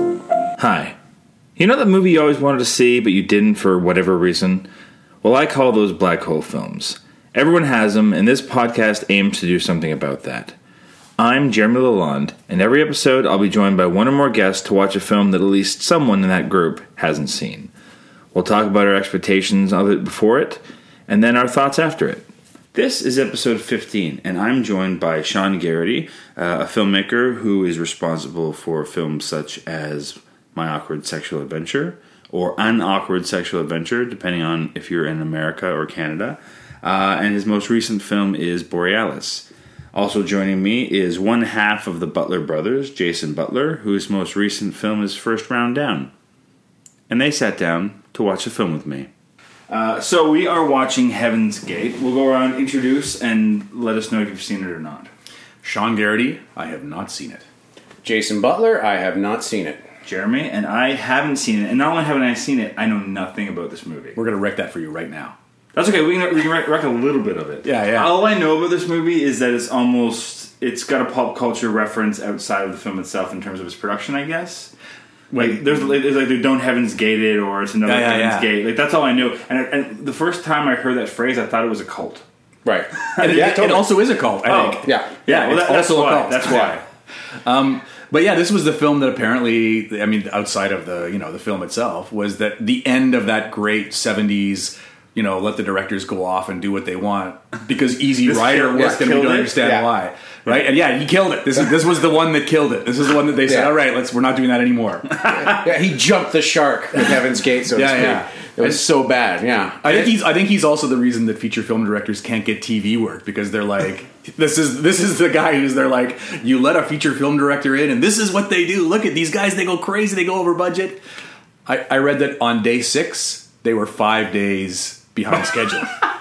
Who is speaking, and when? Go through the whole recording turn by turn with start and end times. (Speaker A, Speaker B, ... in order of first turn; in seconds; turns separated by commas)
Speaker A: 0.6-0.9, Speaker A: 1.6-4.7, Speaker A: 5.2-10.5, Speaker A: 11.2-17.7, Speaker A: 18.3-46.1, Speaker A: 47.1-49.1, Speaker A: 49.7-55.1, Speaker B: 55.6-57.5, Speaker C: 58.0-59.8, Speaker A: 60.0-64.2, Speaker B: 64.2-65.3, Speaker A: 65.7-74.7, Speaker B: 67.6-68.2, Speaker B: 75.3-75.9, Speaker A: 75.3-82.2, Speaker B: 77.8-78.5, Speaker C: 82.6-83.9, Speaker A: 83.0-83.5, Speaker B: 83.2-86.8, Speaker A: 84.5-86.8, Speaker C: 84.8-85.1, Speaker C: 86.4-86.7, Speaker B: 87.4-105.7, Speaker A: 98.2-99.5, Speaker C: 98.7-99.9, Speaker C: 103.5-103.7, Speaker C: 105.3-110.2, Speaker B: 107.7-108.8, Speaker B: 109.8-121.0, Speaker B: 121.7-126.0